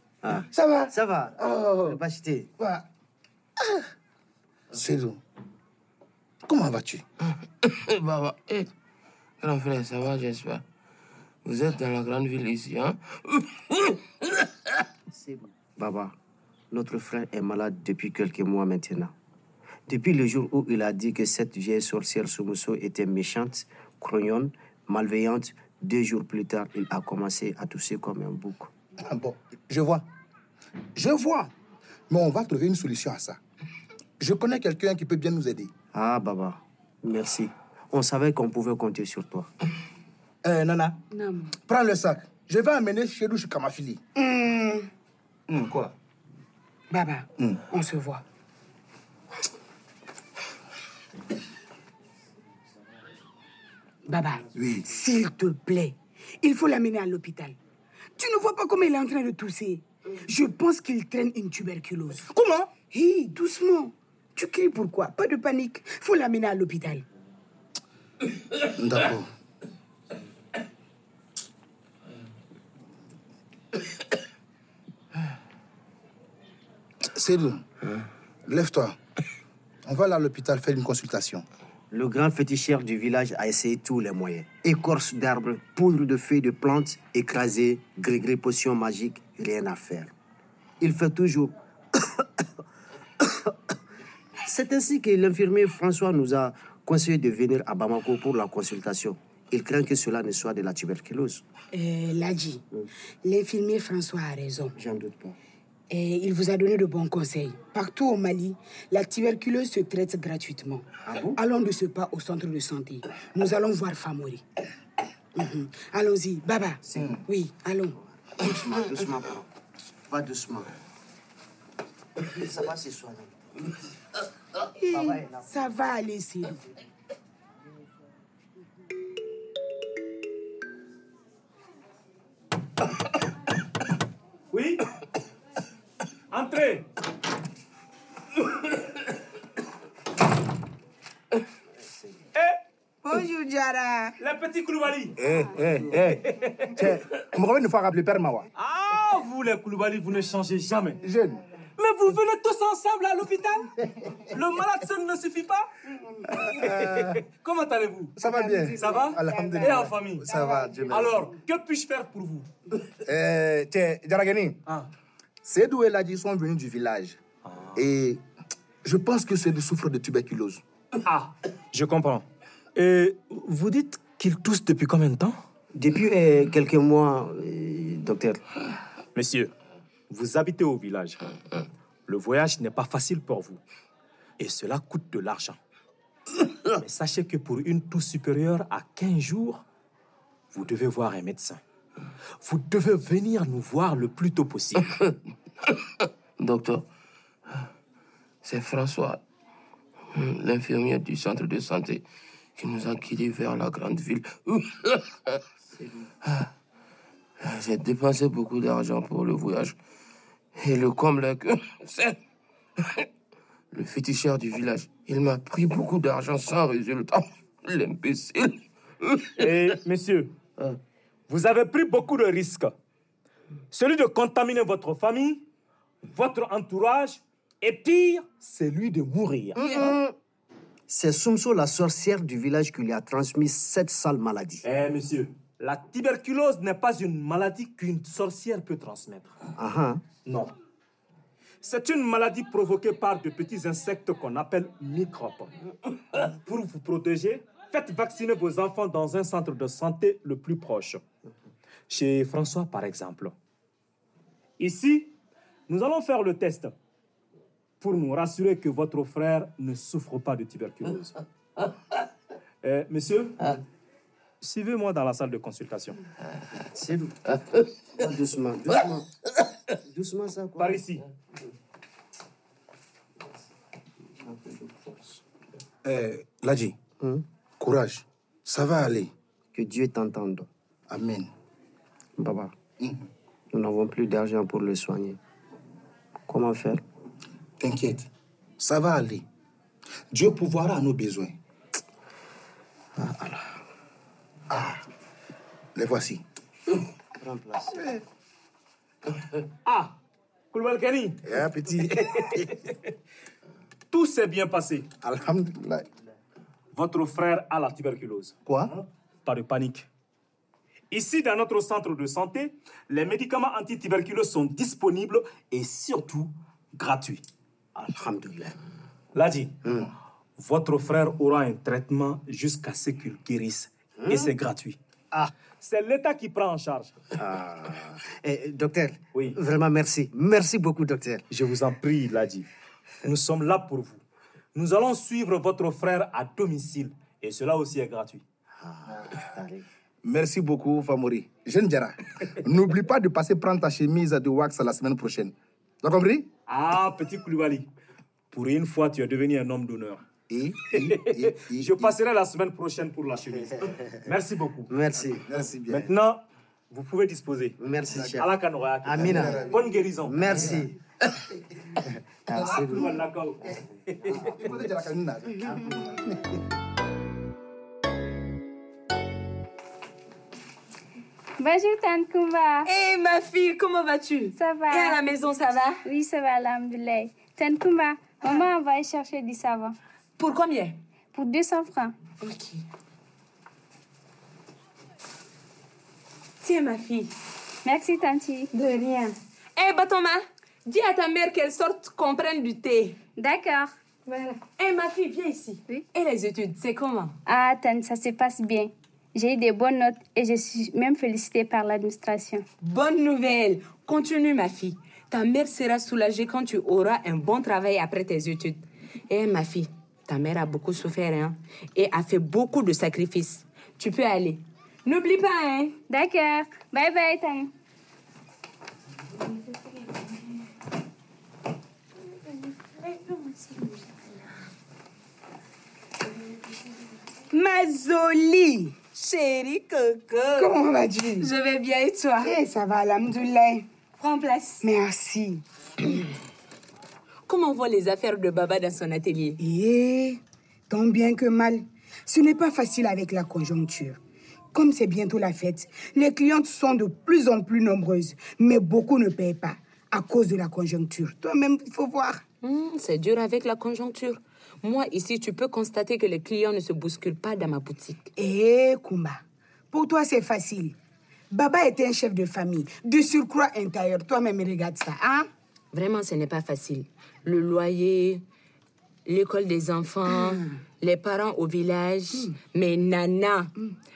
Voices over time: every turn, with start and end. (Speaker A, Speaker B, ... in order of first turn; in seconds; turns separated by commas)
Speaker A: 0.2-2.5, Speaker B: 0.5-2.0, Speaker B: 2.6-2.9, Speaker B: 4.7-5.2, Speaker B: 6.5-7.0, Speaker C: 7.6-8.7, Speaker C: 9.4-10.7, Speaker C: 11.4-14.5, Speaker A: 15.1-16.2, Speaker A: 16.7-19.1, Speaker A: 19.9-28.7, Speaker B: 29.0-30.1, Speaker B: 31.0-31.5, Speaker B: 32.1-33.4, Speaker B: 34.2-35.7, Speaker A: 35.9-39.5, Speaker B: 40.4-41.0, Speaker D: 41.1-41.6, Speaker B: 41.7-44.0, Speaker D: 44.2-44.9, Speaker B: 45.5-46.0, Speaker D: 46.9-48.2, Speaker D: 54.1-57.6, Speaker B: 54.5-54.9, Speaker D: 58.2-62.3, Speaker B: 62.2-62.7, Speaker D: 62.9-67.0, Speaker B: 68.7-69.3, Speaker B: 77.2-77.6, Speaker B: 78.5-79.0, Speaker B: 79.9-81.5, Speaker A: 81.9-90.1, Speaker A: 90.8-91.5, Speaker A: 93.2-93.5, Speaker A: 94.5-101.5, Speaker D: 101.7-102.6, Speaker D: 103.2-104.8, Speaker A: 104.8-105.4, Speaker D: 105.9-114.4, Speaker A: 111.1-111.4, Speaker D: 115.4-118.0, Speaker A: 116.8-117.2, Speaker A: 118.3-119.5, Speaker A: 120.1-120.8, Speaker A: 122.2-123.7, Speaker D: 124.8-126.6, Speaker A: 124.9-125.7, Speaker E: 134.5-134.8, Speaker E: 136.3-136.9, Speaker D: 143.0-144.2, Speaker E: 144.2-145.2, Speaker B: 145.2-146.2, Speaker E: 146.0-146.8, Speaker B: 146.7-148.5, Speaker E: 148.6-151.0, Speaker B: 151.0-151.4, Speaker E: 151.8-155.7, Speaker D: 155.9-156.4, Speaker B: 156.3-157.2, Speaker E: 156.5-158.2, Speaker B: 158.2-161.3, Speaker D: 158.2-161.3, Speaker E: 158.8-160.2, Speaker E: 160.9-162.5, Speaker B: 163.0-164.6, Speaker B: 165.4-167.2, Speaker E: 167.5-167.8, Speaker B: 167.8-168.2, Speaker B: 168.8-170.6, Speaker E: 171.1-175.4, Speaker A: 175.7-178.4, Speaker E: 179.2-179.5, Speaker E: 180.1-181.2, Speaker E: 182.1-183.6, Speaker E: 184.4-185.6, Speaker E: 186.8-189.6, Speaker E: 190.5-191.6, Speaker E: 192.4-194.9, Speaker C: 196.4-196.9, Speaker C: 198.4-199.2, Speaker C: 200.1-202.1, Speaker C: 202.6-205.4, Speaker C: 207.4-209.8, Speaker C: 210.6-212.2, Speaker C: 213.7-219.7, Speaker E: 219.4-220.3, Speaker E: 221.3-222.7, Speaker E: 223.7-225.4, Speaker E: 226.1-229.8, Speaker A: 229.6-230.1, Speaker A: 230.9-234.7, Speaker E: 234.7-239.4, Speaker A: 239.6-240.0, Speaker E: 240.3-240.5, Speaker E: 241.6-245.6, Speaker E: 246.2-251.0, Speaker E: 251.9-253.3, Speaker E: 254.6-255.2, Speaker E: 255.7-256.8, Speaker E: 257.8-261.1, Speaker E: 262.6-263.5, Speaker E: 264.4-266.0, Speaker A: 266.7-269.1, Speaker A: 269.8-271.0, Speaker E: 270.6-271.0, Speaker A: 274.3-275.0, Speaker B: 275.9-276.8, Speaker B: 277.6-279.1, Speaker A: 279.5-280.5, Speaker B: 280.9-281.3, Speaker A: 282.2-282.6, Speaker B: 282.8-283.1, Speaker A: 283.5-285.2, Speaker A: 286.3-286.8, Speaker B: 287.6-288.1, Speaker B: 288.6-289.2, Speaker B: 290.1-291.4, Speaker A: 293.0-293.6, Speaker B: 294.5-294.8, Speaker B: 295.8-296.2, Speaker A: 297.2-297.9, Speaker E: 299.6-300.0, Speaker E: 300.5-301.2, Speaker B: 301.3-302.4, Speaker E: 302.0-302.6, Speaker E: 303.9-304.9, Speaker B: 305.0-305.9, Speaker E: 306.7-309.9, Speaker B: 308.5-308.8, Speaker E: 310.9-317.2, Speaker A: 317.8-318.6, Speaker E: 319.1-319.6, Speaker E: 320.4-324.8, Speaker A: 324.0-324.3, Speaker E: 325.6-326.9, Speaker A: 327.2-331.2, Speaker E: 331.3-332.5, Speaker E: 333.0-334.0, Speaker E: 334.6-338.2, Speaker A: 338.6-339.7, Speaker B: 340.0-346.3, Speaker E: 346.5-347.7, Speaker E: 348.3-350.0, Speaker B: 350.3-351.9, Speaker E: 350.8-354.7, Speaker A: 354.7-355.9, Speaker B: 355.1-355.9, Speaker E: 355.7-357.6, Speaker A: 357.6-360.8, Speaker B: 357.9-358.2, Speaker E: 358.1-360.6, Speaker B: 359.0-359.6, Speaker B: 360.2-360.6, Speaker A: 362.3-362.9, Speaker B: 362.4-362.7, Speaker E: 362.6-364.3, Speaker B: 364.2-366.2, Speaker F: 371.4-372.7, Speaker G: 372.6-375.9, Speaker F: 374.4-375.0, Speaker F: 375.9-379.8, Speaker G: 378.2-378.5, Speaker G: 380.2-380.8, Speaker F: 381.1-382.0, Speaker G: 382.2-382.6, Speaker G: 386.4-387.1, Speaker F: 387.6-388.5, Speaker G: 388.5-393.0, Speaker F: 393.2-393.7, Speaker G: 394.1-397.2, Speaker F: 397.3-402.4, Speaker G: 402.6-415.8, Speaker F: 415.9-417.5, Speaker G: 422.2-424.1, Speaker D: 427.3-428.8, Speaker G: 428.9-430.6, Speaker D: 430.4-431.3, Speaker G: 431.2-432.3, Speaker D: 432.2-433.7, Speaker G: 434.0-434.6, Speaker D: 434.6-435.4, Speaker G: 437.3-439.4, Speaker D: 439.4-444.0, Speaker D: 444.5-452.2, Speaker G: 452.4-458.1, Speaker D: 458.2-459.2, Speaker D: 459.7-460.8, Speaker D: 461.3-465.3, Speaker G: 465.7-468.2, Speaker G: 469.1-473.5, Speaker D: 470.1-470.5